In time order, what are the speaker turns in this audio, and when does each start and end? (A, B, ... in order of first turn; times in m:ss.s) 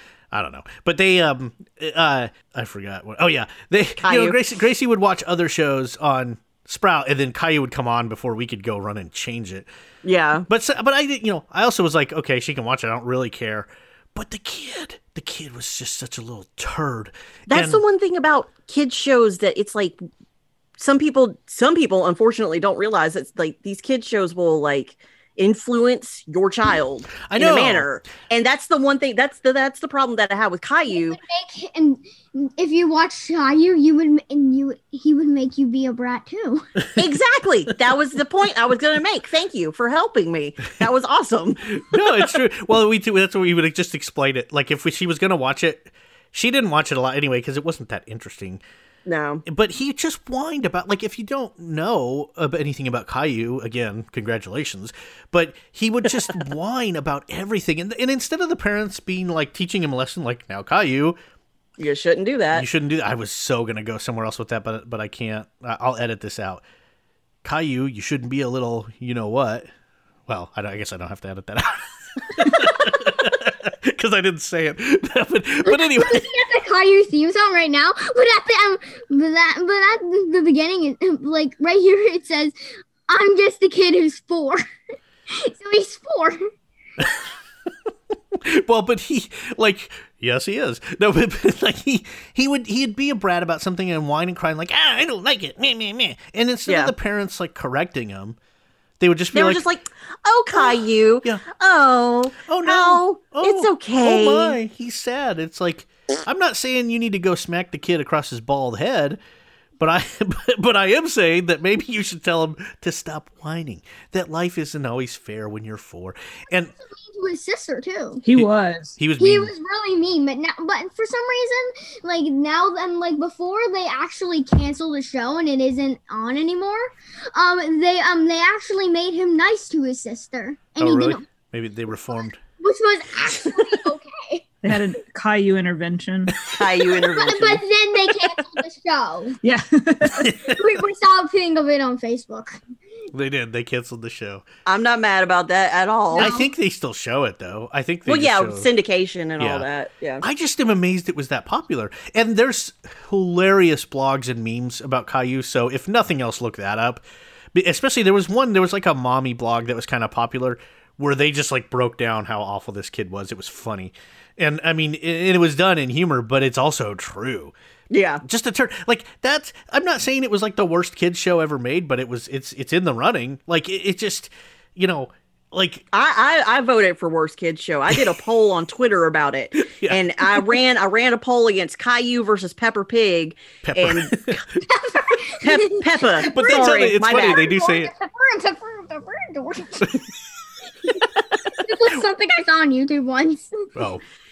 0:00.3-0:09.7 A
0:04.0-0:04.4 B
0:10.0-0:10.4 B
0:10.4-0:17.8 A
0:17.5-0:20.0 B
0:20.8-0:31.2 B
0:27.3-0:27.9 A
0:30.9-0:36.7 C
0:37.0-0:41.8 B
0:41.7-0:48.6 A
0:49.0-0:49.4 B
0:49.4-1:01.2 A
1:01.8-1:02.6 B
1:02.5-1:06.6 A
1:07.4-1:09.7 A
1:10.3-1:16.3 A
1:15.6-1:22.5 C
1:23.1-1:24.6 C
1:25.3-1:26.5 C
1:27.0-1:27.2 A
1:28.3-1:38.4 A
1:36.7-1:36.9 B
1:39.0-1:39.6 A
1:39.3-1:44.6 B
1:40.5-1:41.4 A
1:42.4-1:49.2 A
1:49.8-1:56.7 A
1:56.8-1:58.2 C
1:58.2-1:59.0 D
1:58.3-1:59.5 A
1:59.2-2:11.2 C
2:10.8-2:12.4 A
2:12.6-2:14.4 C
2:14.6-2:16.5 D
2:16.5-2:17.6 B
2:17.2-2:19.4 C
2:19.4-2:20.3 D
2:20.2-2:20.6 A
2:20.3-2:22.6 C
2:23.1-2:24.4 A
2:24.6-2:26.3 B
2:26.1-2:26.5 C
2:26.2-2:28.7 A
2:28.0-2:30.2 B
2:29.4-2:29.7 A
2:30.2-2:37.0 A
2:37.5-2:47.5 A
2:47.9-2:48.2 B
2:48.2-2:55.8 A
2:55.9-3:04.4 B
2:57.9-2:58.2 A
2:59.6-3:00.4 A
3:03.6-3:04.4 A
3:04.6-3:10.0 C
3:05.4-3:07.4 B
3:06.2-3:07.9 A
3:11.4-3:13.7 C
3:13.8-3:14.0 A